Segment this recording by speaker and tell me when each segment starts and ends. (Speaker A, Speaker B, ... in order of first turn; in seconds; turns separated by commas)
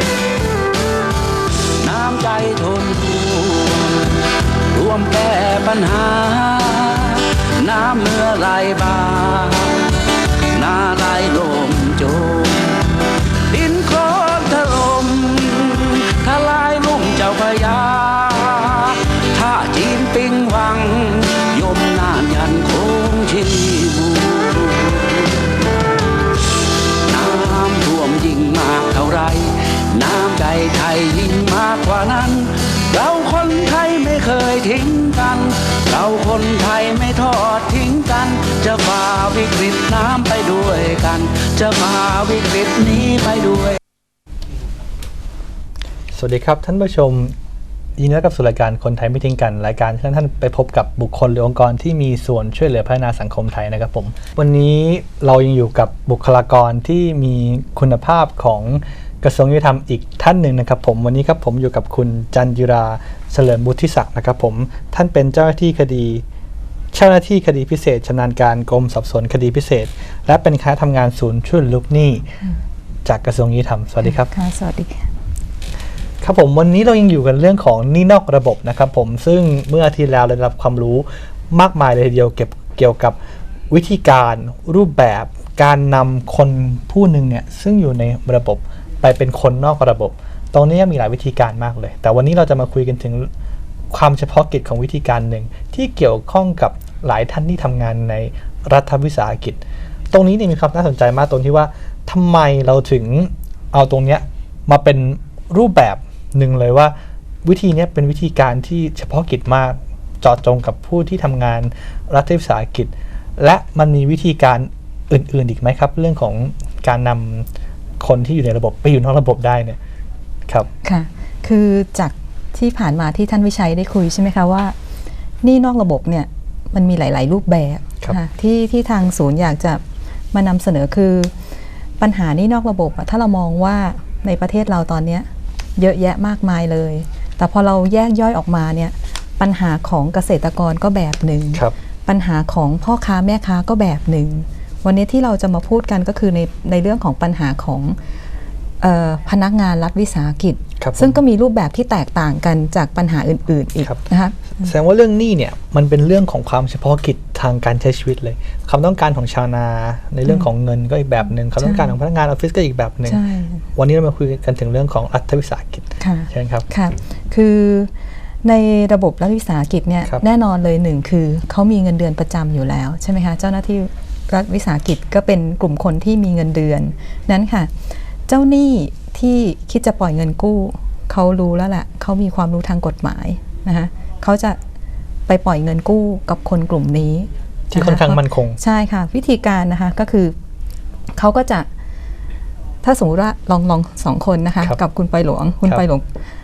Speaker A: 1.8-4.2, Speaker A: 4.7-10.0, Speaker A: 10.5-12.8, Speaker A: 13.5-25.4, Speaker A: 27.1-43.8, Speaker B: 46.1-47.3, Speaker B: 48.0-66.2, Speaker B: 66.9-72.2, Speaker B: 73.0-74.3, Speaker C: 74.1-75.1, Speaker B: 76.2-83.2, Speaker B: 83.7-93.3, Speaker B: 93.9-99.6, Speaker B: 100.1-117.5, Speaker B: 118.0-119.8, Speaker C: 120.8-124.7, Speaker C: 125.4-129.8, Speaker C: 130.3-131.3, Speaker C: 132.0-147.9, Speaker C: 148.8-154.7, Speaker B: 150.8-151.2, Speaker B: 154.6-163.2, Speaker C: 161.6-161.9, Speaker C: 163.1-163.6, Speaker B: 163.7-166.7, Speaker C: 166.0-167.9, Speaker C: 168.4-177.7, Speaker C: 178.3-184.6, Speaker C: 185.3-190.3, Speaker B: 187.7-188.6, Speaker C: 191.1-191.7, Speaker C: 192.8-196.1